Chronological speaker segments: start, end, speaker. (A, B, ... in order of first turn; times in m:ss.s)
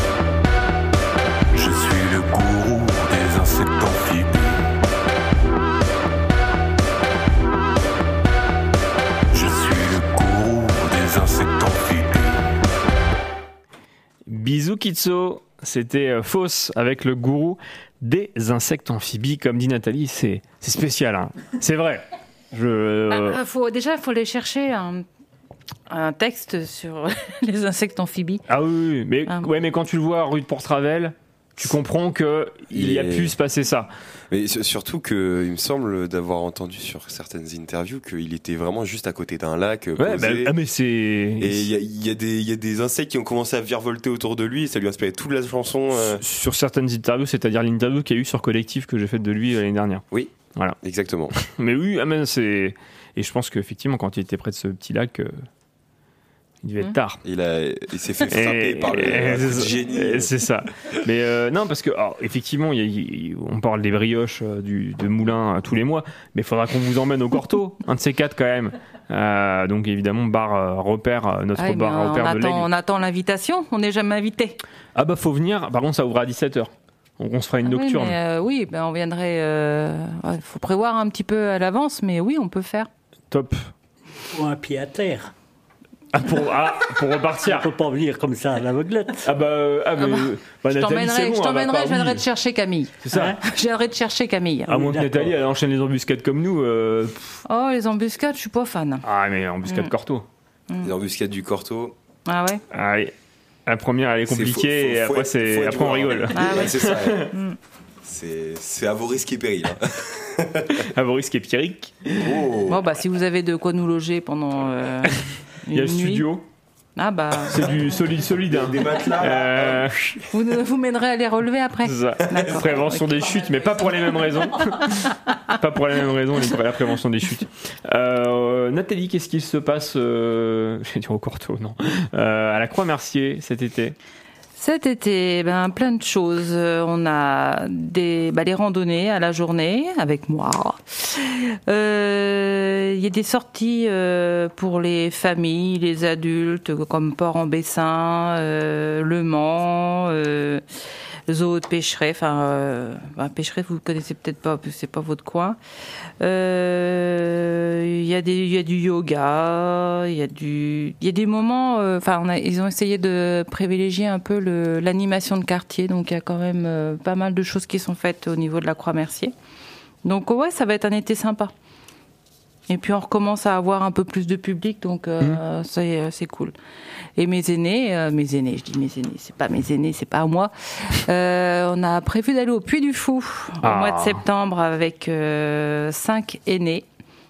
0:01.5-0:04.7 A
0:09.3-0:12.5 A
0:14.3-0:23.4 B
0:23.1-0:25.0 C
0:25.9-0:28.4 C
0:28.5-0:33.9 B
0:32.7-0:33.3 D
0:34.3-0:40.5 D
0:40.0-0:41.7 B
0:41.4-0:46.2 D
0:45.9-0:50.8 B
0:50.1-0:51.3 D
0:51.4-0:55.4 B
0:56.6-0:57.2 B
0:57.2-1:00.3 D
0:58.3-1:12.7 B
1:11.6-1:14.6 C
1:14.9-1:18.2 B
1:17.6-1:22.9 C
1:23.3-1:23.7 B
1:24.3-1:25.3 E
1:26.1-1:27.7 B
1:27.4-1:29.2 E
1:29.2-1:32.2 B
1:30.0-1:34.7 C
1:33.0-1:33.3 B
1:33.1-1:33.4 E
1:34.7-1:35.4 E
1:34.7-1:37.4 B
1:37.5-1:39.0 C
1:39.0-1:40.2 B
1:39.6-1:39.9 C
1:40.8-1:41.9 D
1:42.2-1:42.6 C
1:42.7-1:43.1 B
1:43.7-1:47.3 B
1:44.3-1:47.3 D
1:46.3-1:47.6 C
1:48.0-1:50.8 D
1:50.9-1:52.4 B
1:52.2-1:52.9 D
1:52.7-1:56.3 C
1:55.7-1:56.4 B
1:57.0-1:57.7 C
1:57.5-2:00.1 B
1:58.5-2:00.2 D
2:00.3-2:03.4 C
2:01.8-2:14.0 B
2:02.3-2:02.6 D
2:14.6-2:30.6 C
2:31.3-2:35.6 C
2:36.2-2:49.3 C
2:50.0-2:51.5 C
2:52.7-2:56.5 C
2:57.2-3:06.8 C
3:03.6-3:04.2 B